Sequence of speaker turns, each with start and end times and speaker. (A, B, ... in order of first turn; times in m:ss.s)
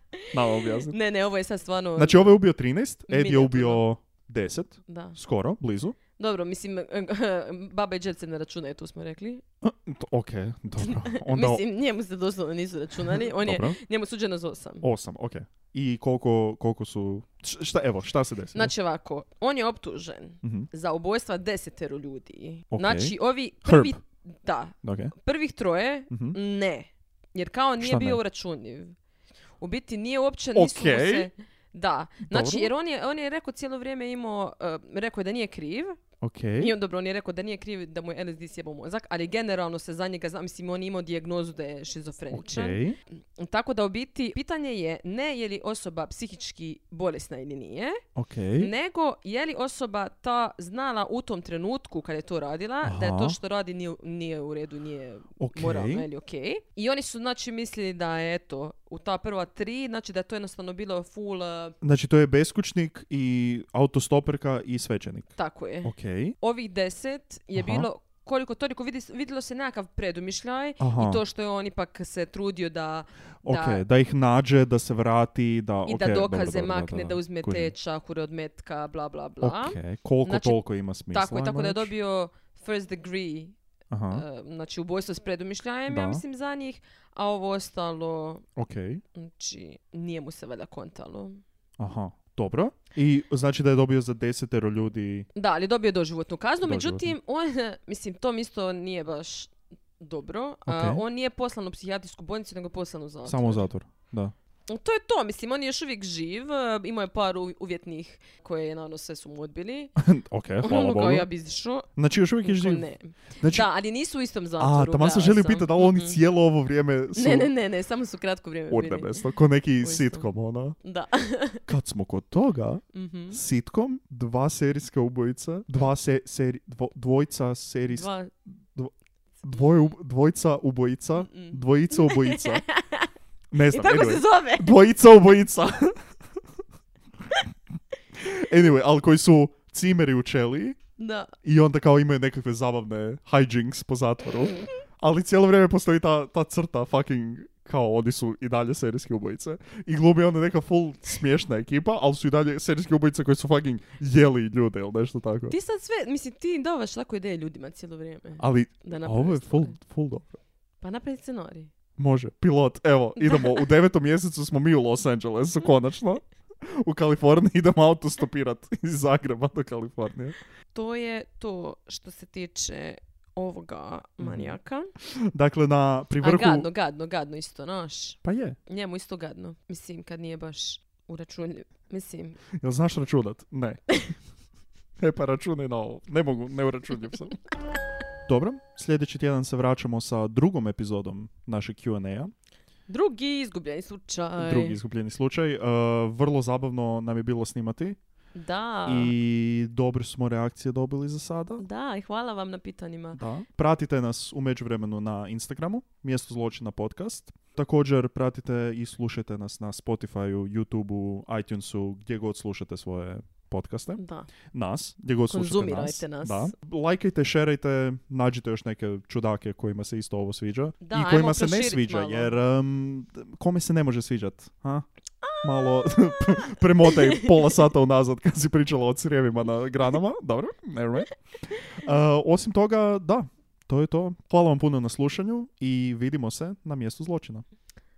0:00.3-0:01.0 A
0:00.6-0:02.4 B
0:02.0-0:06.0 A
0:03.1-0:03.8 B
0:04.9-0:05.2 B
0:06.2-0:09.4 B
0:09.6-0:11.6 A
0:10.8-0:14.8 B
0:13.4-0:13.8 A
0:14.8-0:18.7 A
0:18.5-0:29.0 B
0:20.4-0:20.7 A
0:22.7-0:24.0 A
0:24.8-0:25.1 A
0:26.1-0:26.4 A
0:27.8-0:28.2 A
0:29.6-0:36.0 B
0:30.5-0:31.3 A
0:32.3-0:32.7 A
0:36.2-0:36.7 A
0:36.6-0:48.0 B
0:42.3-0:43.0 A
0:48.2-0:48.7 A
0:48.6-1:01.8 B
0:52.8-0:53.4 A
0:55.4-0:56.0 A
1:01.8-1:05.3 A
1:05.4-1:13.8 B
1:05.8-1:06.4 A
1:07.6-1:07.9 A
1:10.8-1:11.2 A
1:13.4-1:17.7 A
1:15.8-1:20.6 B
1:19.4-1:21.9 A
1:21.1-1:23.5 B
1:23.9-1:24.2 A
1:24.1-1:28.4 B
1:25.9-1:26.2 A
1:28.6-1:29.0 A
1:29.1-1:31.4 B
1:31.8-1:35.3 A
1:35.4-1:43.6 B
1:36.6-1:37.1 A
1:40.6-1:41.0 A
1:43.3-1:44.3 A
1:44.7-1:49.9 B
1:50.0-1:51.3 A
1:50.6-1:51.9 B
1:52.0-1:52.9 A
1:52.4-1:56.2 B
1:53.4-1:53.7 A
1:54.6-1:57.5 A
1:57.1-1:59.2 B
1:58.7-2:00.8 A
1:59.8-2:00.3 B
2:00.8-2:01.6 B
2:01.7-2:08.1 A
2:02.9-2:03.4 B
2:07.9-2:08.3 B
2:09.4-2:12.6 A
2:11.2-2:13.1 B
2:13.5-2:16.0 A
2:13.7-2:14.7 B
2:18.2-2:20.8 A
2:21.0-2:21.3 B
2:21.4-2:35.5 A
2:35.5-2:39.8 B
2:38.4-2:40.3 A
2:40.8-2:41.7 B
2:42.0-2:50.4 A
2:43.2-2:43.6 B
2:50.7-2:54.9 B
2:54.2-2:54.5 A
2:55.3-2:56.7 A
2:56.2-3:02.4 B
2:58.2-2:58.6 A
3:02.6-3:03.9 A
3:05.0-3:07.4 A
3:08.3-3:12.3 A
3:12.9-3:14.8 B
3:14.4-3:18.0 A
3:18.4-3:19.1 B
3:18.9-3:21.6 A
3:21.6-3:23.2 B
3:23.2-3:34.0 A
3:34.0-3:34.3 B
3:34.5-3:44.8 A
3:35.3-3:36.5 B
3:40.8-3:42.3 B
3:45.2-3:47.3 B
3:45.4-3:51.1 A
3:51.8-3:57.4 A